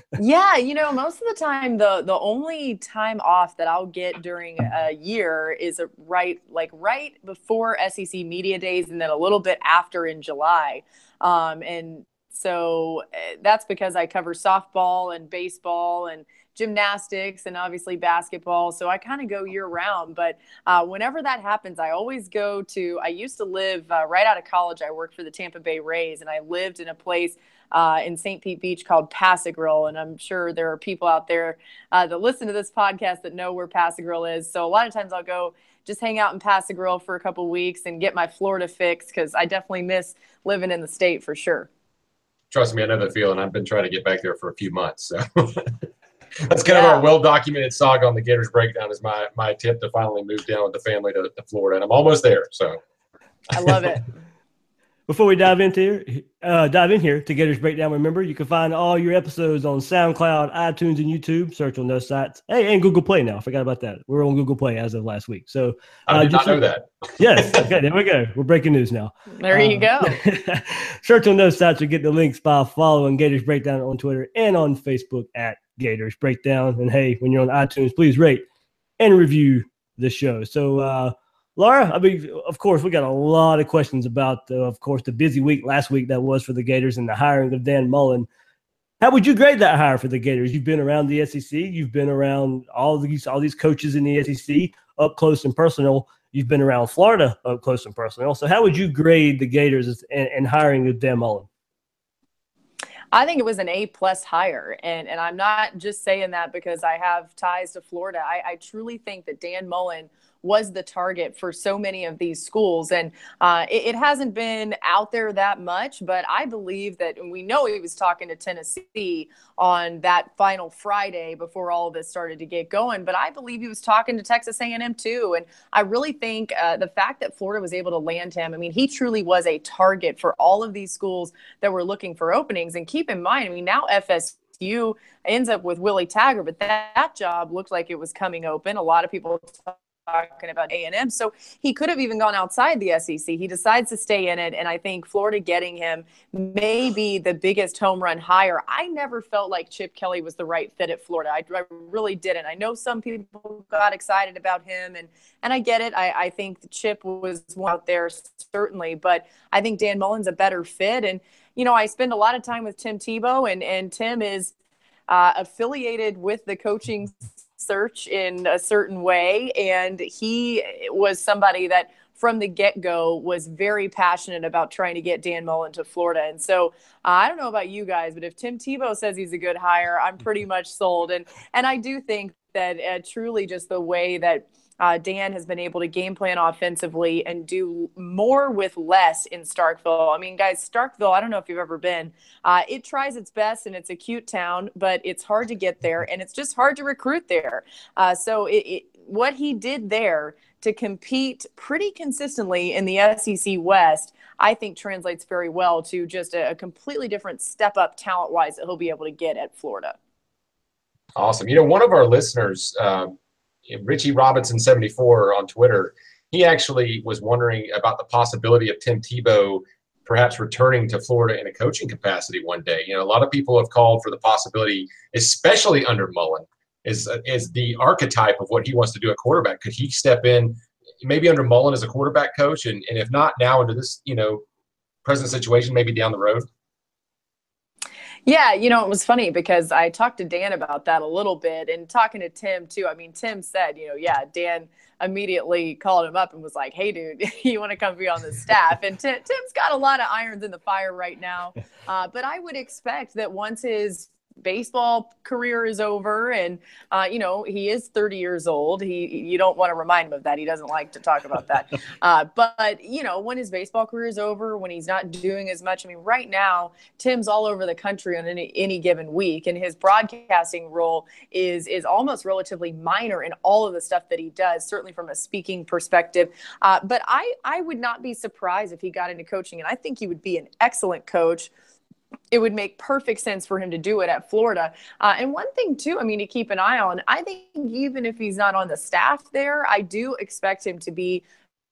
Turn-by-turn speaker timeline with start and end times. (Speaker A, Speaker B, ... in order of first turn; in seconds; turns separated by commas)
Speaker A: 0.2-41.7, Speaker B: 42.5-45.8, Speaker B: 46.5-52.8, Speaker A: 46.7-47.1, Speaker A: 53.5-54.1, Speaker C: 55.1-66.6, Speaker B: 66.1-67.7, Speaker C: 67.2-78.4, Speaker A: 69.4-70.2, Speaker C: 79.0-88.3, Speaker C: 89.0-101.5, Speaker A: 103.1-164.5, Speaker A: 165.1-209.9, Speaker B: 211.2-213.2, Speaker B: 213.7-234.4, Speaker B: 235.1-236.5, Speaker A: 238.2-281.5, Speaker A: 282.3-291.2